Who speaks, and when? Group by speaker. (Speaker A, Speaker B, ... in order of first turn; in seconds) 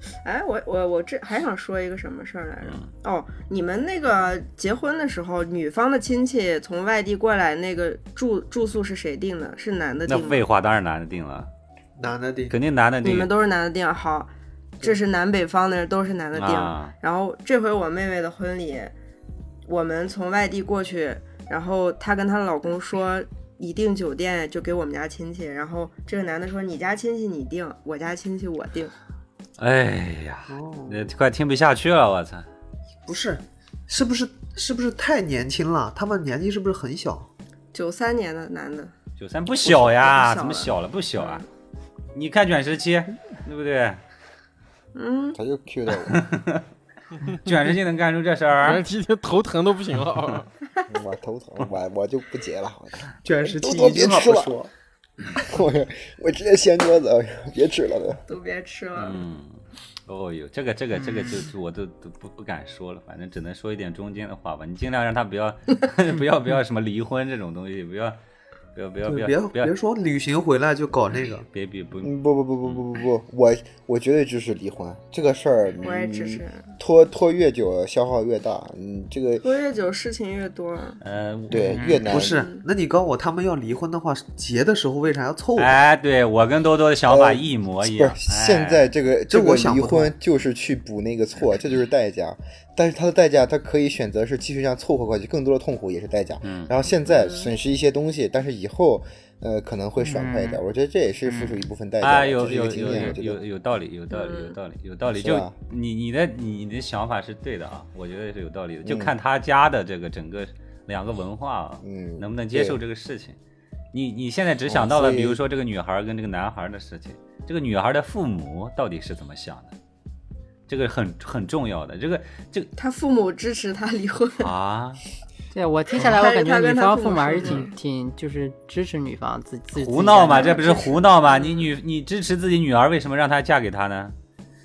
Speaker A: 0.2-10.4, 13.0-18.9, 19.7-28.9, 37.7-38.9, 39.6-41.5, 45.0-45.4, 58.3-59.2, 75.8-76.7, 79.4-81.0, 82.3-82.6, 97.1-97.5, 104.1-104.5, 122.8-124.5, 125.9-127.7, 130.3-131.7
Speaker B: 2.6-2.9, 10.1-11.5, 12.5-13.3, 16.4-16.9, 29.6-32.5, 39.2-41.5, 42.1-44.0, 46.0-46.7, 47.4-48.9, 59.0-68.2, 68.7-69.7, 71.1-72.8, 81.0-81.8, 85.6-88.8, 96.4-96.7, 102.0-113.4, 113.9-119.7, 120.7-122.7, 124.4-125.0, 129.7-134.1
Speaker C: 12.0-12.6, 30.5-31.1, 33.0-37.3, 53.2-54.7, 69.0-71.5, 82.0-85.8, 89.3-90.1
Speaker D: 45.4-46.3, 50.9-54.6, 55.3-58.2, 72.0-79.5, 81.5-82.4, 87.1-103.4, 105.1-105.5, 108.8-109.1, 111.8-112.8, 114.7-115.4
Speaker E: 47.2-47.5, 48.6-50.5
Speaker F: 81.7-82.0, 100.0-100.6, 101.3-101.6, 125.5-130.6